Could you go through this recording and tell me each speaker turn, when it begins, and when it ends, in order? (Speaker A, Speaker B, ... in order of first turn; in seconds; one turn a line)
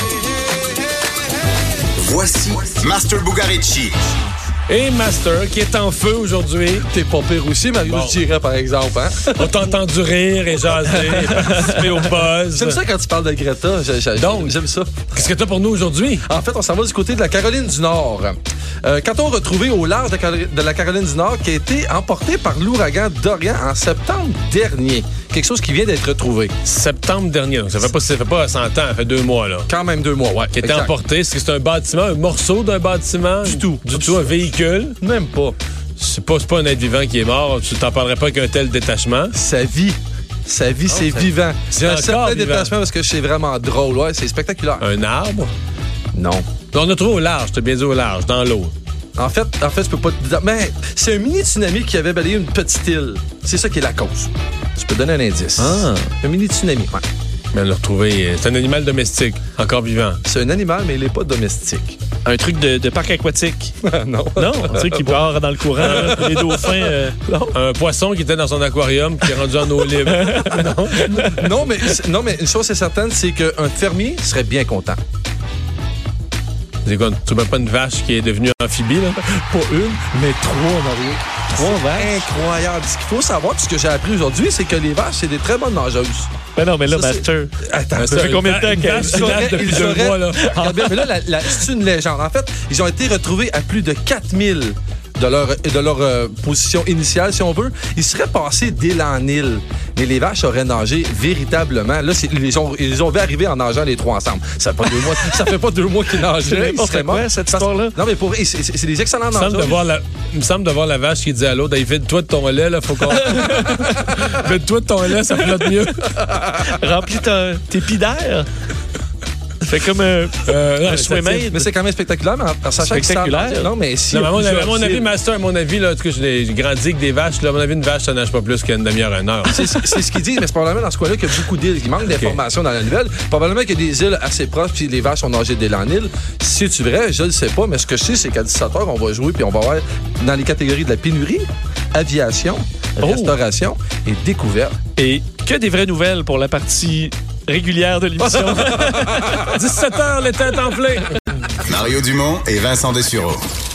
Speaker A: 2.0-4.0
Speaker B: 4.7-6.9
Speaker C: 6.8-9.5
Speaker B: 7.8-8.2
Speaker B: 9.2-12.8
Speaker D: 11.4-11.7
Speaker C: 12.5-15.1
Speaker B: 14.2-14.6
Speaker B: 15.1-16.3
Speaker C: 16.2-26.5
Speaker B: 26.6-29.7
Speaker C: 29.7-30.9
Speaker B: 30.6-35.0
Speaker C: 33.5-34.4
Speaker C: 35.0-35.6
Speaker B: 36.0-39.4
Speaker C: 39.4-44.9
Speaker B: 41.7-42.7
Speaker B: 44.8-45.5
Speaker C: 46.1-46.5
Speaker B: 46.7-48.7
Speaker C: 49.2-57.0
Speaker D: 55.6-56.1
Speaker B: 57.5-60.2
Speaker C: 60.2-62.0
Speaker D: 62.2-63.8
Speaker C: 63.8-65.2
Speaker D: 64.4-67.3
Speaker C: 65.8-67.5
Speaker B: 65.8-66.4
Speaker B: 67.5-71.5
Speaker D: 70.1-71.4
Speaker C: 71.0-75.0
Speaker B: 76.8-79.2
Speaker C: 79.3-86.3
Speaker D: 81.5-82.2
Speaker D: 86.5-87.5
Speaker C: 86.9-109.8
Speaker B: 88.0-90.5
Speaker D: 88.1-91.1
Speaker D: 106.4-108.0
Speaker B: 109.3-116.2
Speaker D: 113.1-114.2
Speaker C: 116.4-116.7
Speaker D: 116.6-118.5
Speaker D: 119.7-121.7
Speaker B: 120.4-121.5
Speaker C: 121.5-125.1
Speaker D: 122.8-123.7
Speaker B: 124.1-130.0
Speaker C: 129.5-144.8
Speaker B: 132.0-132.4
Speaker D: 143.0-143.4
Speaker D: 145.0-149.5
Speaker C: 148.2-149.5
Speaker B: 149.5-151.3
Speaker A: 151.7-153.4